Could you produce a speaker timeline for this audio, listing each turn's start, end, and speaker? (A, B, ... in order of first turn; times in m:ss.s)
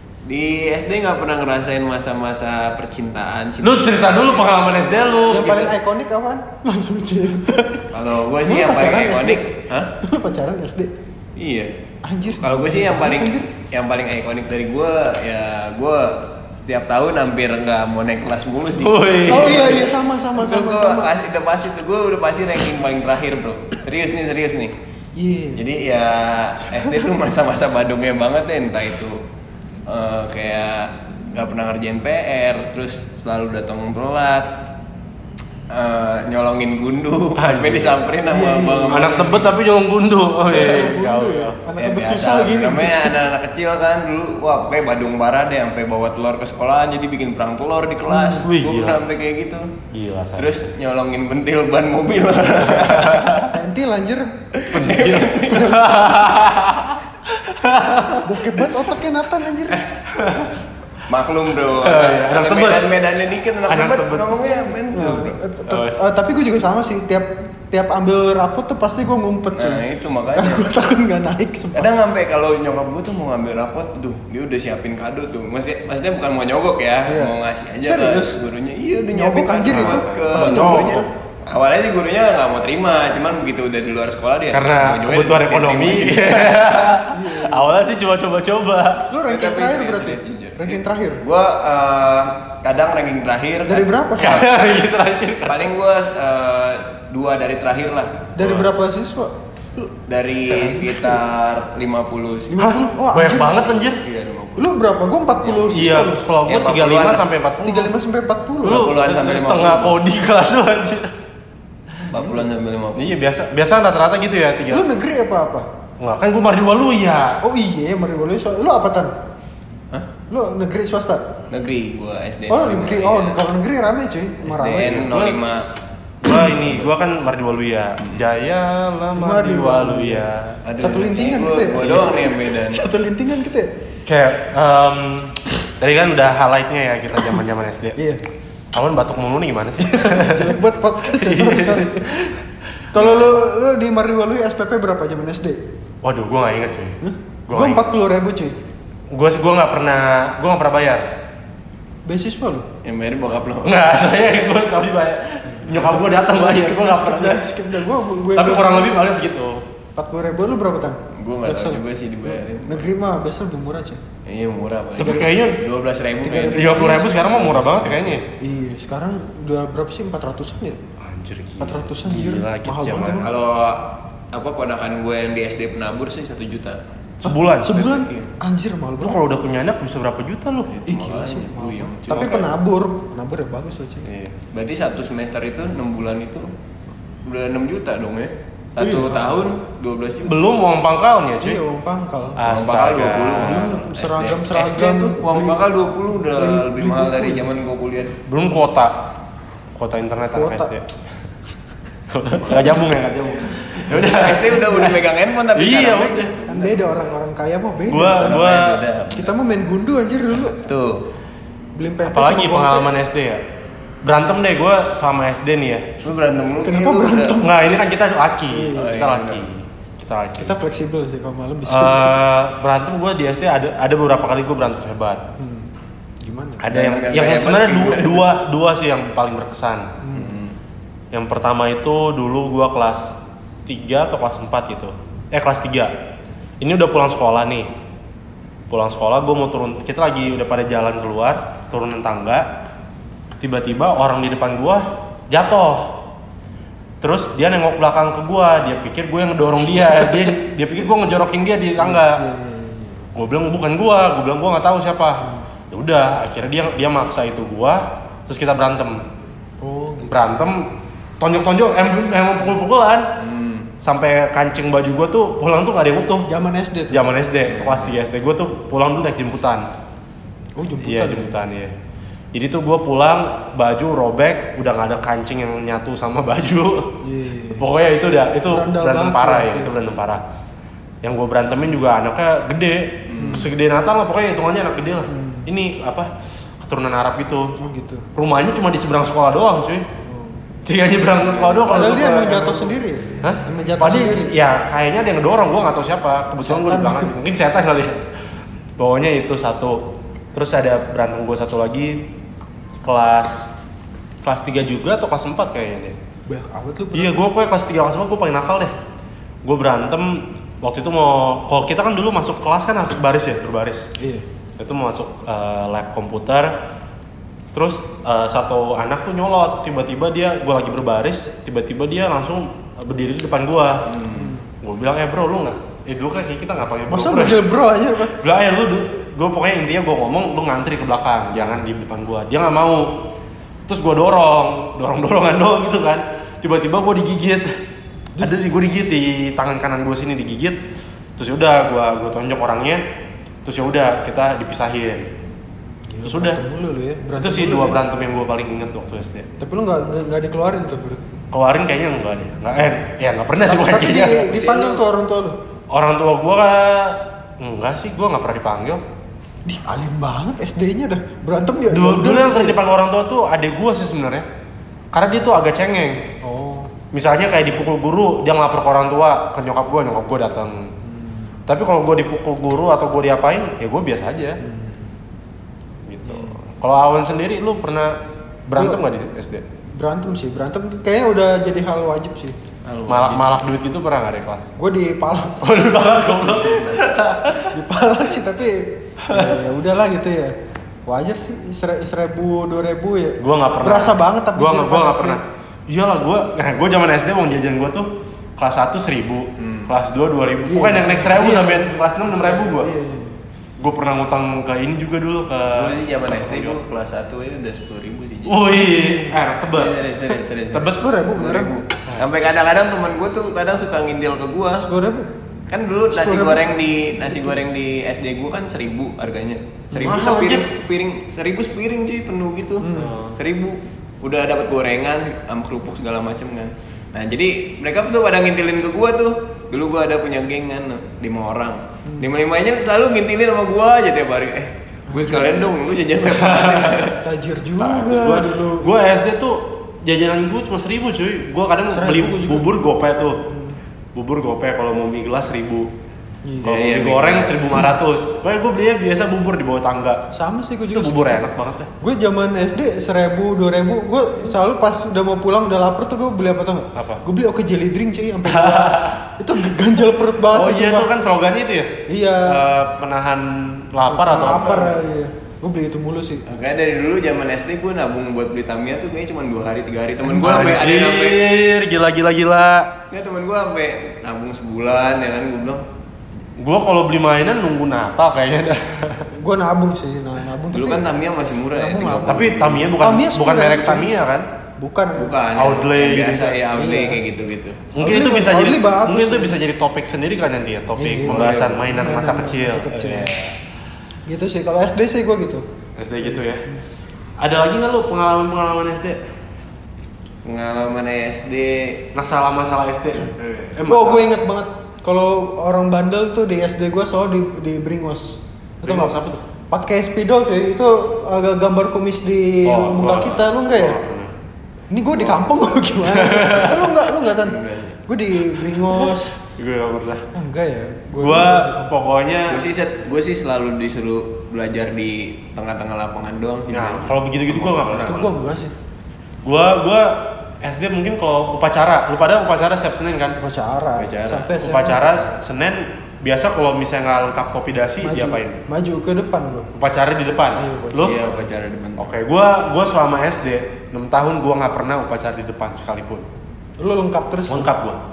0:00.2-0:04.6 A
0:03.6-0:05.8 B
0:05.3-0:07.9 C
0:07.9-0:09.9 A
0:08.4-0:10.9 C
0:11.4-0:11.7 A
0:12.0-0:13.5 C
0:12.3-0:24.8 A
0:18.8-0:19.9 B
0:19.2-0:21.1 C
0:25.2-0:25.6 C
0:25.6-0:29.2 A
0:29.9-0:34.6 A
0:35.7-0:39.5 A
0:37.4-0:38.0 B
0:38.2-0:39.4 C
0:38.9-0:41.6 B
0:40.5-0:43.1 C
0:41.8-0:49.8 A
0:48.1-0:48.5 C
0:48.4-0:49.0 B
0:49.9-0:50.7 B
0:50.4-0:53.5 A
0:52.7-0:53.4 B
0:53.4-0:54.4 C
0:54.6-0:56.4 A
0:54.7-0:58.2 B
0:58.2-0:59.8 C
0:59.7-1:00.6 B
1:01.1-1:05.4 A
1:01.8-1:03.0 B
1:03.7-1:04.3 B
1:04.9-1:11.9 C
1:05.7-1:06.0 B
1:09.6-1:10.8 A
1:11.7-1:26.8 A
1:17.1-1:18.4 C
1:19.1-1:21.1 C
1:19.7-1:21.1 B
1:24.5-1:29.1 B
1:27.1-1:27.7 C
1:29.1-1:31.2 C
1:29.3-1:34.4 A
1:33.6-1:34.5 C
1:34.2-1:35.6 B
1:35.5-1:38.4 A
1:38.4-1:39.9 C
1:40.1-1:42.6 A
1:40.5-1:41.2 C
1:42.5-1:43.7 C
1:42.6-1:44.0 B
1:43.9-1:44.8 A
1:44.6-1:46.2 C
1:45.4-1:47.2 A
1:45.7-1:47.9 B
1:47.6-1:49.0 C
1:48.6-1:51.1 B
1:48.6-1:50.0 A
1:52.0-1:52.5 C
1:52.1-1:53.1 A
1:53.0-1:54.9 B
1:54.7-1:55.7 C
1:56.0-1:57.4 B
1:57.4-1:59.1 C
2:00.3-2:01.3 C
2:01.5-2:03.4 A
2:02.5-2:05.1 C
2:04.4-2:05.7 A
2:05.0-2:05.4 B
2:06.2-2:10.6 B
2:06.4-2:06.9 A
2:09.1-2:10.3 C
2:10.6-2:12.8 A
2:10.8-2:13.7 C
2:14.1-2:18.0 B
2:18.7-2:22.1 B
2:19.8-2:22.4 C
2:22.9-2:25.6 C
2:26.0-2:27.9 B
2:27.0-2:28.6 C
2:29.1-2:31.1 B
2:32.1-2:32.7 C
2:32.8-2:33.8 A
2:33.6-2:37.5 B
2:35.4-2:39.1 C
2:38.4-2:39.6 B
2:40.0-2:44.0 C
2:41.1-2:42.9 A
2:44.2-2:47.0 A
2:45.0-2:45.6 B
2:45.0-2:45.3 C
2:46.2-2:50.8 C
2:46.5-2:48.2 B
2:51.0-2:53.3 B
2:51.6-2:53.3 C
2:53.2-2:56.8 A
2:57.2-2:57.8 B
2:57.2-2:59.2 C
2:57.7-2:58.3 A
2:59.0-3:00.8 B
3:00.7-3:02.5 A
3:00.9-3:04.1 C
3:02.1-3:02.4 B
3:04.0-3:04.4 B
3:04.5-3:06.5 A
3:07.2-3:10.4 A
3:08.8-3:09.5 C
3:10.2-3:11.6 B
3:11.4-3:12.4 C
3:12.4-3:13.8 B
3:12.4-3:18.2 A
3:13.4-3:15.6 C
3:16.2-3:17.5 C
3:18.3-3:19.1 B
3:19.8-3:20.9 B
3:20.3-3:20.7 C
3:22.1-3:25.0 B
3:22.5-3:22.8 C
3:22.5-3:22.8 A
3:23.9-3:26.9 A
3:25.6-3:26.4 B
3:26.4-3:28.4 C
3:27.9-3:28.8 B
3:28.2-3:29.3 A
3:29.1-3:30.7 C
3:30.4-3:31.0 A
3:31.8-3:32.9 C
3:32.0-3:33.4 B
3:34.0-3:35.9 B
3:36.0-3:37.5 A
3:36.6-3:37.8 C
3:37.4-3:40.6 B
3:38.5-3:38.9 C
3:38.6-3:39.4 A
3:40.4-3:42.2 C
3:41.6-3:45.2 B
3:45.4-3:45.7 C
3:46.2-3:46.7 C
3:46.6-3:49.9 B
3:46.7-3:48.3 A
3:50.0-3:50.4 C
3:50.1-3:50.6 A
3:51.1-3:55.9 B
3:56.6-3:57.7 B
3:58.7-4:02.5 B
4:03.4-4:06.0 B
4:07.0-4:12.2 B
4:11.8-4:13.1 C
4:13.1-4:19.0 B
4:19.6-4:20.2 C
4:20.1-4:23.1 B
4:23.2-4:23.7 A
4:23.8-4:26.3 B
4:26.3-4:27.1 C
4:26.9-4:29.7 B
4:27.5-4:27.9 A
4:30.6-4:31.4 C
4:30.8-4:31.7 B
4:32.3-4:37.0 B
4:37.0-4:37.7 C
4:37.6-4:40.2 B
4:38.5-4:39.7 C
4:41.0-4:46.1 B
4:43.1-4:43.5 A
4:43.2-4:43.5 C
4:45.1-4:45.5 C
4:46.6-4:47.6 B
4:47.6-4:48.1 C
4:48.1-4:49.9 B
4:50.0-4:50.4 C
4:50.6-4:58.1 B
4:51.3-4:51.6 A
4:51.6-4:54.3 C
4:56.4-4:57.1 C
4:58.8-5:02.0 B
5:02.8-5:03.5 B
5:04.2-5:06.0 B
5:06.3-5:07.2 C
5:06.9-5:08.7 B
5:09.4-5:13.9 B
5:14.0-5:14.2 C
5:14.6-5:16.6 B
5:17.5-5:23.9 B
5:23.9-5:24.3 A
5:24.1-5:24.4 C
5:24.6-5:27.4 B
5:26.9-5:28.2 C
5:28.2-5:33.0 B
5:31.3-5:31.6 C
5:33.7-5:37.5 B
5:38.2-5:40.6 B
5:41.2-5:42.8 B
5:43.4-5:45.1 B
5:45.9-5:47.8 C
5:46.0-5:46.4 B
5:47.2-5:49.3 B
5:49.4-5:51.0 C
5:51.3-5:54.7 B
5:53.4-5:55.4 C
5:55.7-5:58.8 B
5:59.4-6:02.6 C
6:01.7-6:04.2 B
6:04.9-6:06.0 B
6:06.2-6:06.8 C
6:06.9-6:10.7 B
6:10.8-6:11.4 C
6:11.5-6:14.4 B
6:14.4-6:14.9 C
6:15.9-6:19.5 B
6:16.1-6:16.4 C
6:18.6-6:18.8 C
6:19.7-6:22.4 C
6:22.6-6:23.4 A
6:22.9-6:24.5 B
6:24.6-6:26.7 C
6:25.4-6:27.6 B
6:27.5-6:30.4 C
6:29.0-6:29.4 B
6:30.9-6:35.2 C
6:33.2-6:42.7 B
6:39.4-6:39.7 A
6:40.5-6:43.2 C
6:43.6-6:46.6 B
6:45.5-6:48.4 A
6:48.3-6:49.8 B
6:48.5-6:49.2 C
6:49.5-6:54.6 A
6:50.5-6:50.8 B
6:50.8-6:51.5 C
6:51.9-6:52.2 B
6:54.6-6:55.1 C
6:55.5-7:17.0 A
6:55.9-6:56.4 C
6:57.0-6:57.3 C
6:59.8-7:00.5 B
7:02.6-7:03.0 C
7:02.8-7:03.2 B
7:14.9-7:15.5 C
7:16.0-7:16.9 B
7:17.0-7:18.7 C
7:17.6-7:23.2 B
7:21.7-7:22.5 C
7:23.3-7:23.6 C
7:23.9-7:25.7 B
7:26.2-7:26.6 C
7:26.4-7:30.1 B
7:26.4-7:27.5 A
7:30.1-7:31.2 C
7:30.7-7:31.7 B
7:31.8-7:40.9 C
7:36.8-7:37.0 B
7:38.2-7:39.0 B
7:40.3-7:44.8 B
7:41.9-7:42.4 C
7:43.9-7:46.2 C
7:44.4-7:44.7 A
7:46.2-7:51.3 A
7:50.0-7:50.6 C
7:50.2-7:52.7 B
7:52.9-7:55.6 A
7:56.4-7:59.1 B
7:59.1-8:01.0 C
8:00.5-8:02.7 A
8:01.5-8:03.9 C
8:02.0-8:04.3 B
8:04.6-8:05.1 C
8:05.0-8:07.7 A
8:05.3-8:06.4 B
8:06.6-8:07.0 C
8:07.7-8:13.4 B
8:07.8-8:09.4 C
8:10.8-8:13.1 C
8:11.1-8:11.6 A
8:14.1-8:15.5 C
8:15.8-8:16.4 B
8:16.0-8:16.6 C
8:17.2-8:19.0 B
8:20.2-8:21.9 A
8:21.9-8:24.1 B
8:23.6-8:29.0 C
8:28.6-8:29.2 B
8:29.5-8:33.8 C
8:32.4-8:34.1 B
8:34.7-8:39.1 C
8:35.8-8:36.8 B
8:37.2-8:37.8 A
8:38.7-8:40.1 B
8:40.1-8:41.7 C
8:41.0-8:42.4 B
8:42.3-8:48.0 A
8:46.5-8:48.1 B
8:47.8-8:48.5 C
8:49.2-8:53.2 B
8:53.2-8:55.1 C
8:53.8-8:54.3 A
8:54.4-8:58.4 B
8:57.8-8:59.5 C
8:59.5-9:01.0 B
9:00.4-9:01.3 C
9:00.8-9:01.9 A
9:01.8-9:06.0 B
9:06.6-9:07.5 C
9:07.3-9:07.8 B